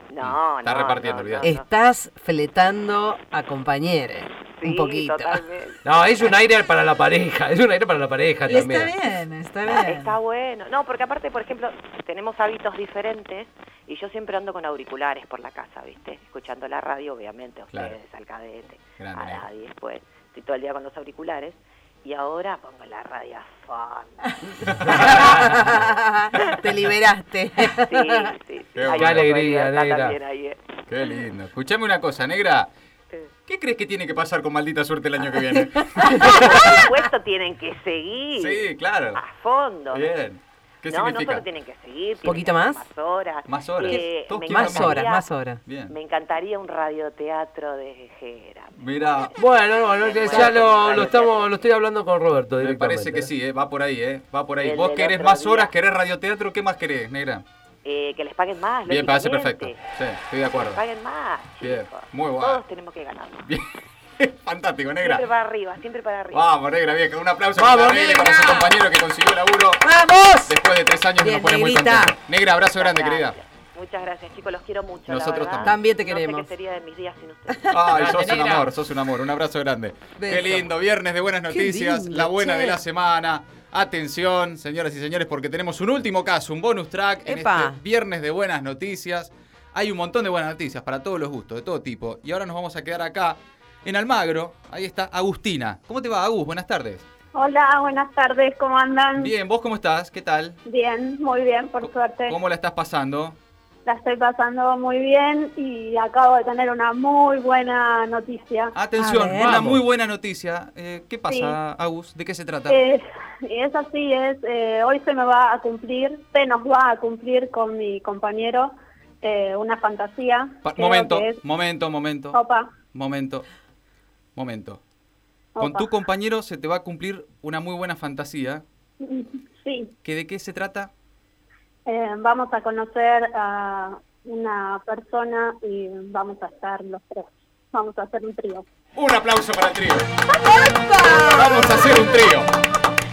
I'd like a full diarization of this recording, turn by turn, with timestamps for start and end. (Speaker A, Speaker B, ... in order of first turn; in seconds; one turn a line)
Speaker A: 0.1-1.6
Speaker B: 0.2-1.5
Speaker C: 1.4-5.4
Speaker A: 4.6-5.8
Speaker D: 5.8-8.9
Speaker E: 8.4-10.2
Speaker A: 9.7-25.3
Speaker B: 19.0-19.4
Speaker B: 24.6-25.5
Speaker C: 24.9-28.3
Speaker A: 27.7-31.2
Speaker B: 28.8-29.3
Speaker D: 28.9-30.2
Speaker B: 30.9-32.7
Speaker B: 33.5-36.9
Speaker A: 36.0-40.1
Speaker C: 36.1-36.7
Speaker B: 38.4-39.2
Speaker B: 39.9-41.4
Speaker A: 40.9-45.3
Speaker C: 42.2-42.8
Speaker B: 43.5-45.1
Speaker C: 43.9-45.6
Speaker B: 45.7-45.9
Speaker A: 45.9-51.5
Speaker B: 48.8-49.3
Speaker D: 49.4-53.3
Speaker B: 50.3-50.6
Speaker B: 52.6-57.4
Speaker A: 54.6-55.5
Speaker A: 57.8-59.8
Speaker B: 58.9-60.8
Speaker A: 60.5-63.5
Speaker B: 61.6-62.6
Speaker B: 64.2-65.3
Speaker A: 65.0-66.5
Speaker B: 66.3-69.9
Speaker D: 67.5-68.8
Speaker C: 69.8-70.6
Speaker B: 70.5-73.4
Speaker C: 71.2-72.2
Speaker A: 72.8-78.2
Speaker B: 75.1-75.8
Speaker C: 75.6-76.5
Speaker B: 77.7-97.0
Speaker D: 77.9-78.7
Speaker C: 80.2-80.7
Speaker C: 81.5-82.8
Speaker C: 87.2-87.8
Speaker F: 97.3-99.3
Speaker B: 99.2-100.6
Speaker F: 100.7-102.4
Speaker B: 101.8-103.4
Speaker F: 103.9-108.8
Speaker B: 108.8-112.8
Speaker E: 109.0-109.6
Speaker D: 109.3-109.8
Speaker F: 111.3-111.6
Speaker F: 112.7-121.4
Speaker B: 120.6-122.4
Speaker F: 122.3-122.7
Speaker B: 122.9-123.5
Speaker B: 124.4-124.8
Speaker F: 125.6-125.9
Speaker B: 125.6-128.6
Speaker F: 129.0-129.9
Speaker B: 130.0-130.9
Speaker F: 131.9-138.7
Speaker B: 138.9-140.1
Speaker F: 140.6-141.3
Speaker C: 141.0-141.3
Speaker B: 141.1-142.5